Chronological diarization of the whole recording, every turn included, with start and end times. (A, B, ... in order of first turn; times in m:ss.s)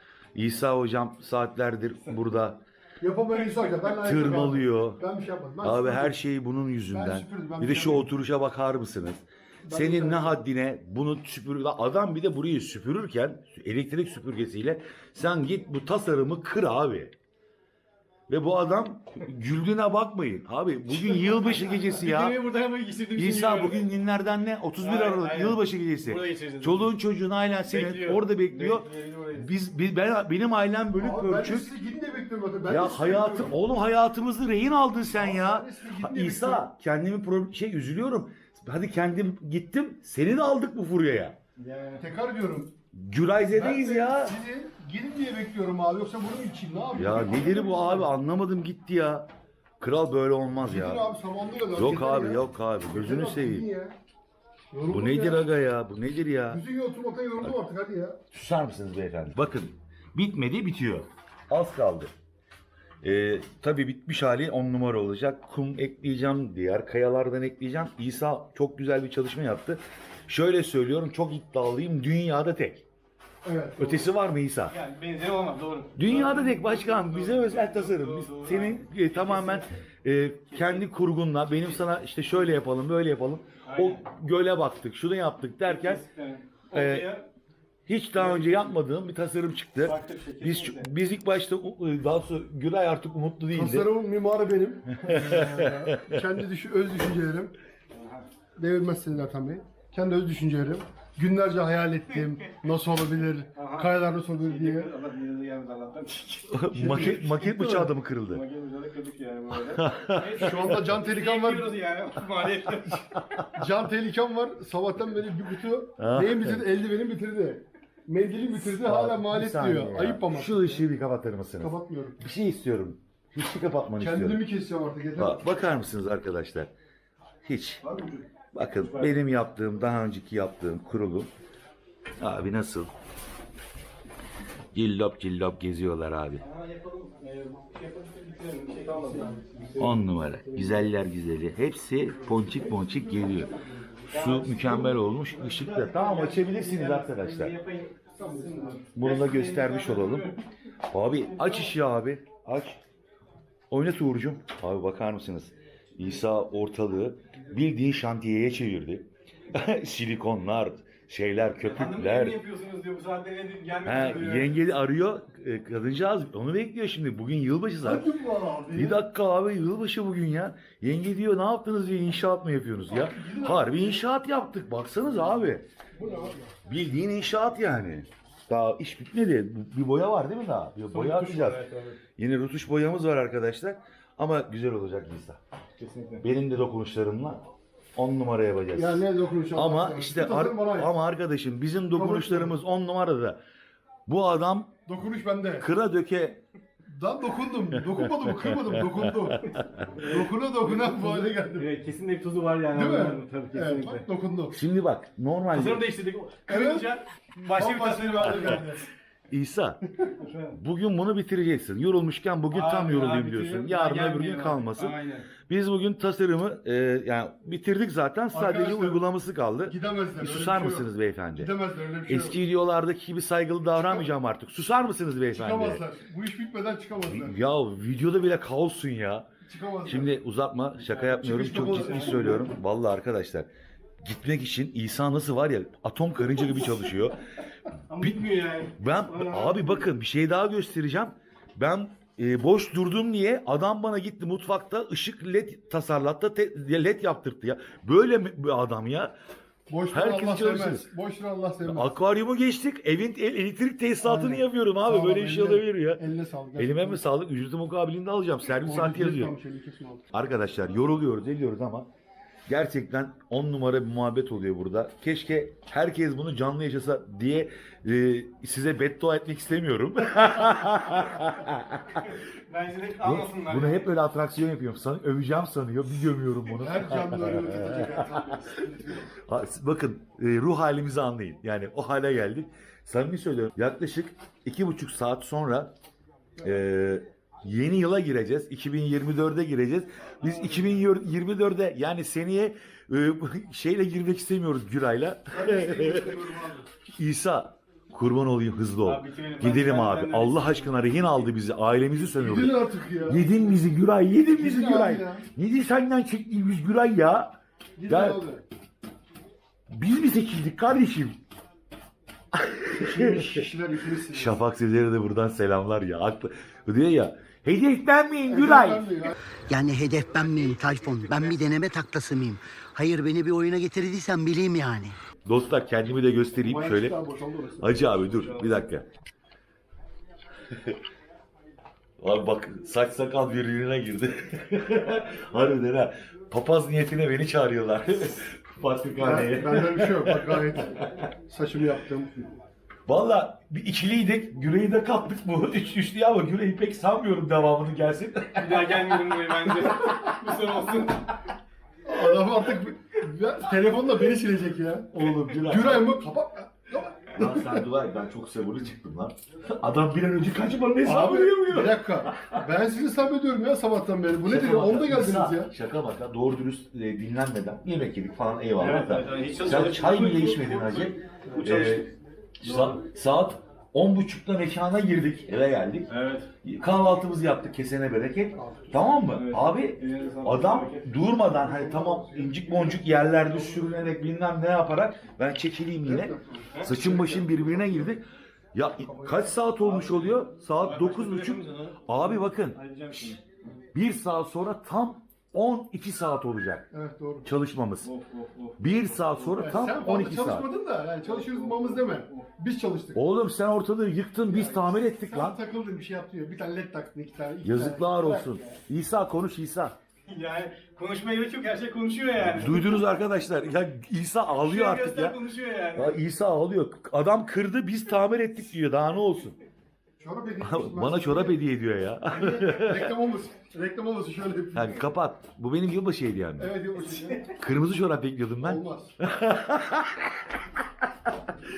0:00.4-0:02.6 A
0:03.0-0:06.2 B
0:04.0-0:05.0 A
0:05.6-0:17.1 A
0:06.9-0:08.1 B
0:09.6-0:10.4 B
0:18.3-0:22.4 A
0:20.9-0:23.9 C
0:23.2-0:31.7 A
0:24.8-0:26.9 C
0:27.7-0:29.5 C
0:30.9-0:33.6 B
0:32.7-0:41.4 A
0:35.1-0:36.7 B
0:41.6-0:42.0 C
0:42.0-0:42.7 B
0:42.9-0:44.4 A
0:43.5-0:48.1 B
0:47.0-0:49.3 A
0:49.8-0:51.1 A
0:50.6-0:54.0 B
0:51.7-0:53.7 A
0:54.7-0:55.4 B
0:54.9-0:56.6 A
0:56.5-0:58.2 B
0:58.3-1:02.1 A
1:03.0-1:12.8 A
1:13.4-1:14.1 B
1:13.8-1:14.8 A
1:14.7-1:19.7 C
1:16.0-1:26.0 A
1:20.5-1:20.9 C
1:23.7-1:24.0 C
1:25.6-1:27.3 C
1:26.7-1:27.1 A
1:27.9-1:33.9 A
1:28.2-1:28.8 C
1:29.8-1:30.9 C
1:33.5-1:37.5 B
1:34.9-1:36.2 A
1:37.9-1:38.3 C
1:38.6-1:44.9 B
1:43.6-1:53.4 C
1:46.5-1:48.4 A
1:46.7-1:47.7 B
1:49.5-1:50.8 A
1:50.3-1:51.8 B
1:53.5-2:00.9 B
1:56.0-1:56.7 A
1:58.6-2:04.4 A
2:01.6-2:02.3 B
2:04.0-2:05.5 B
2:05.2-2:06.7 A
2:07.4-2:07.8 A
2:07.8-2:08.2 C
2:08.5-2:11.3 A
2:08.8-2:09.1 C
2:12.2-2:12.9 A
2:14.7-2:16.4 A
2:16.4-2:20.8 C
2:19.0-2:19.6 B
2:19.8-2:23.5 A
2:22.2-2:24.2 B
2:24.1-2:30.4 C
2:24.1-2:27.6 A
2:28.2-2:28.9 B
2:29.0-2:30.4 A
2:30.9-2:32.8 A
2:31.2-2:31.7 C
2:33.7-2:42.4 A
2:41.6-2:44.6 C
2:43.8-2:48.1 A
2:47.8-2:49.0 B
2:48.7-2:55.6 A
2:52.9-2:54.0 B
2:56.0-2:56.5 B
2:56.0-2:56.4 C
2:56.6-3:01.6 A
3:00.9-3:02.0 C
3:02.2-3:05.4 A
3:05.8-3:06.2 C
3:06.2-3:13.4 A
3:08.7-3:10.9 B
3:11.9-3:12.6 B
3:14.1-3:14.7 A
3:14.9-3:15.7 B
3:15.6-3:16.4 A
3:16.9-3:21.7 B
3:17.7-3:19.9 A
3:20.0-3:24.0 C
3:22.7-3:24.6 B
3:24.5-3:25.9 A
3:25.5-3:28.7 C
3:26.5-3:26.9 B
3:27.5-3:28.8 B
3:28.3-3:28.6 A
3:29.3-3:29.8 A
3:30.2-3:30.6 C
3:30.6-3:41.5 A
3:32.5-3:35.3 C
3:38.3-3:39.0 B
3:39.7-3:42.4 B
3:42.1-3:45.8 A
3:45.3-3:47.4 B
3:47.1-3:49.3 A
3:49.4-3:50.2 B
3:49.8-3:53.5 A
3:50.9-3:52.3 C
3:51.2-3:52.5 B
3:54.0-3:57.2 A
3:57.9-3:59.9 C
3:58.0-4:09.1 A
4:09.7-4:11.9 B
4:09.9-4:10.9 A
4:11.6-4:16.0 A
4:14.0-4:17.0 B
4:16.6-4:19.4 A
4:18.6-4:20.1 B
4:20.1-4:21.9 A
4:22.5-4:32.0 A
4:32.0-4:33.9 C
4:33.0-4:38.3 A
4:36.6-4:39.1 B
4:39.1-4:45.7 A
4:46.4-4:56.2 A
4:50.2-4:50.8 C
4:55.3-4:56.7 B
4:56.9-5:07.3 A
4:58.8-5:01.2 C
5:02.2-5:03.6 B
5:04.2-5:05.3 B
5:07.8-5:08.4 B
5:07.9-5:08.3 A
5:09.7-5:11.2 A
5:12.3-5:13.5 A
5:12.7-5:14.4 B
5:14.1-5:19.1 A
5:18.3-5:19.2 B
5:19.5-5:25.0 D
5:20.6-5:21.3 C
5:25.2-5:27.0 A
5:26.4-5:28.3 B
5:27.6-5:28.9 A
5:28.2-5:28.5 C
5:30.5-5:30.8 A
5:32.0-5:41.0 A
5:39.0-5:42.1 B
5:42.9-5:50.0 A
5:48.4-5:51.1 C
5:51.8-5:57.7 B
5:55.0-5:56.0 A
5:57.1-6:02.5 A
6:00.8-6:05.5 B
6:04.2-6:11.9 A
6:08.6-6:11.9 C
6:12.4-6:15.9 A
6:12.4-6:12.8 C
6:15.9-6:16.3 C
6:16.4-6:28.0 A
6:18.4-6:18.8 B
6:19.0-6:21.0 C
6:21.1-6:23.8 B
6:25.8-6:27.9 B
6:26.5-6:27.0 C
6:28.5-6:32.6 A
6:28.8-6:29.3 B
6:29.6-6:33.2 C
6:33.7-6:36.7 A
6:36.7-6:37.3 B
6:37.2-6:37.9 A
6:37.8-6:39.7 C
6:38.6-6:40.5 A
6:39.4-6:43.0 B
6:41.0-6:42.3 C
6:43.0-6:45.4 A
6:44.3-6:48.6 B
6:47.4-6:49.8 A
6:50.1-6:52.8 C
6:52.2-6:55.2 A
6:54.4-6:56.0 C
6:55.8-6:59.4 A
7:00.0-7:01.4 B
7:00.4-7:03.0 A
7:02.1-7:04.8 B
7:04.5-7:06.6 A
7:06.4-7:07.3 B
7:06.9-7:07.2 C
7:07.3-7:10.9 A
7:08.4-7:09.0 B